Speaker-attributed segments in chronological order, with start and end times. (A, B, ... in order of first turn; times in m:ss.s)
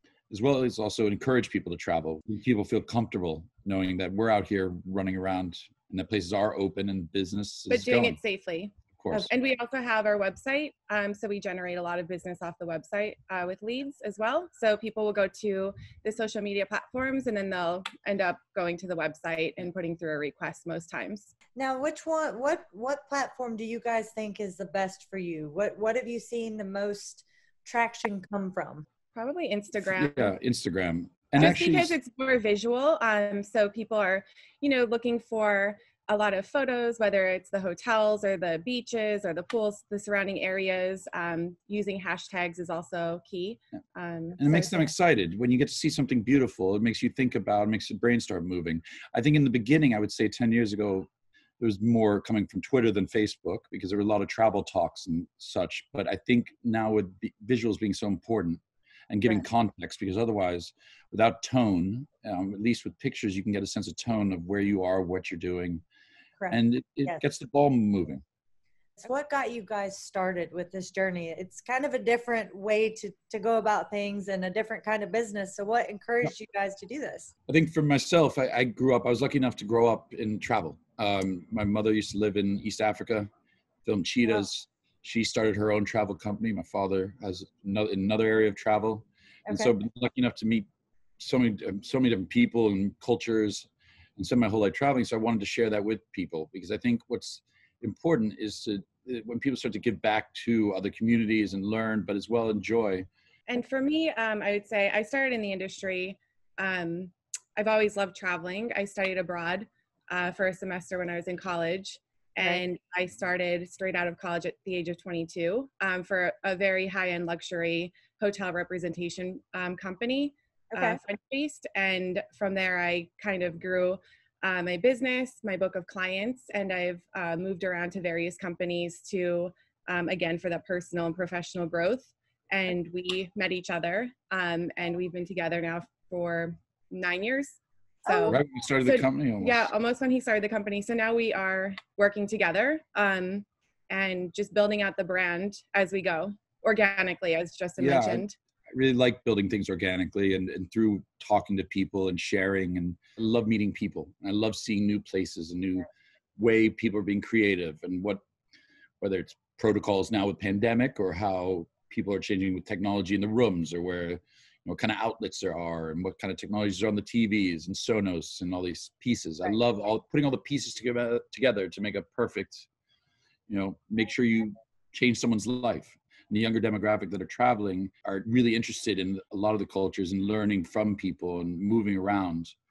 0:00.3-0:08.2 A
0:07.7-0:21.3 B
0:09.0-0:09.3 A
0:21.6-0:28.9 C
0:29.2-0:30.4 B
0:29.8-0:32.0 A
0:31.4-0:44.9 B
0:44.4-0:51.1 A
0:51.6-1:05.8 A
1:06.4-1:07.2 C
1:06.5-1:08.2 A
1:09.0-1:17.3 C
1:17.5-1:23.3 A
1:23.8-1:30.7 A
1:31.2-1:43.1 A
1:43.5-2:28.4 B
2:00.7-2:01.0 C
2:18.3-2:19.7 A
2:27.8-2:38.2 A
2:39.0-2:52.7 A
2:53.5-3:02.5 A